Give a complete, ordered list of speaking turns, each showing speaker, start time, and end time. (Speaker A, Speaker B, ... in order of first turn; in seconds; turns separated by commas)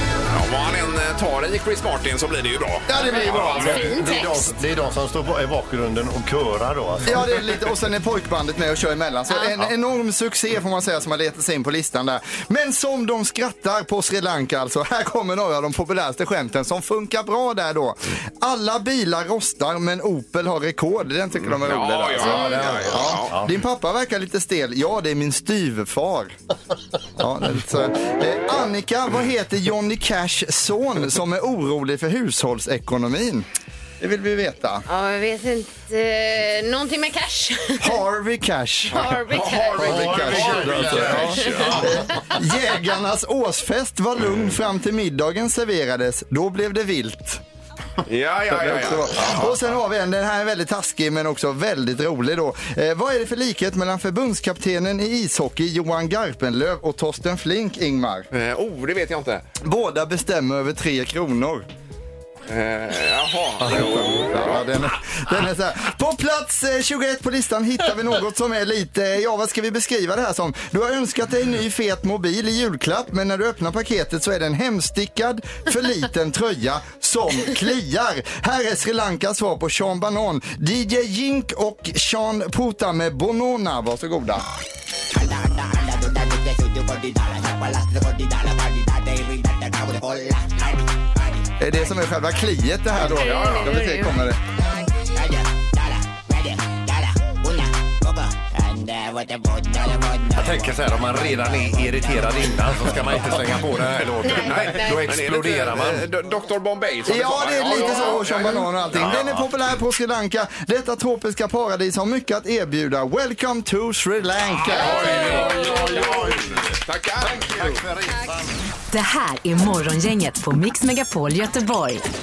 Speaker A: 0.3-4.1, Speaker B: 2.9-3.9, Speaker C: 3.0-4.5, Speaker D: 3.2-7.3, Speaker B: 7.0-26.3, Speaker A: 21.3-23.3, Speaker D: 22.1-23.6, Speaker B: 27.2-33.5, Speaker B: 34.0-34.9, Speaker C: 34.9-38.0, Speaker B: 37.8-39.2, Speaker C: 38.9-39.9, Speaker A: 39.3-41.9, Speaker B: 39.8-47.4, Speaker D: 39.8-42.1, Speaker A: 48.0-49.7, Speaker B: 48.5-58.3, Speaker A: 58.3-59.5, Speaker B: 59.6-61.6, Speaker A: 62.5-64.7, Speaker B: 63.6-84.4, Speaker B: 91.6-94.4, Speaker C: 93.0-94.2, Speaker A: 93.2-93.7, Speaker D: 100.3-106.1, Speaker A: 104.0-109.3, Speaker C: 104.2-105.2, Speaker B: 105.7-106.0, Speaker B: 107.0-115.7, Speaker D: 108.9-109.4, Speaker A: 114.5-117.8, Speaker D: 114.7-118.6, Speaker C: 114.9-116.0, Speaker E: 118.9-122.0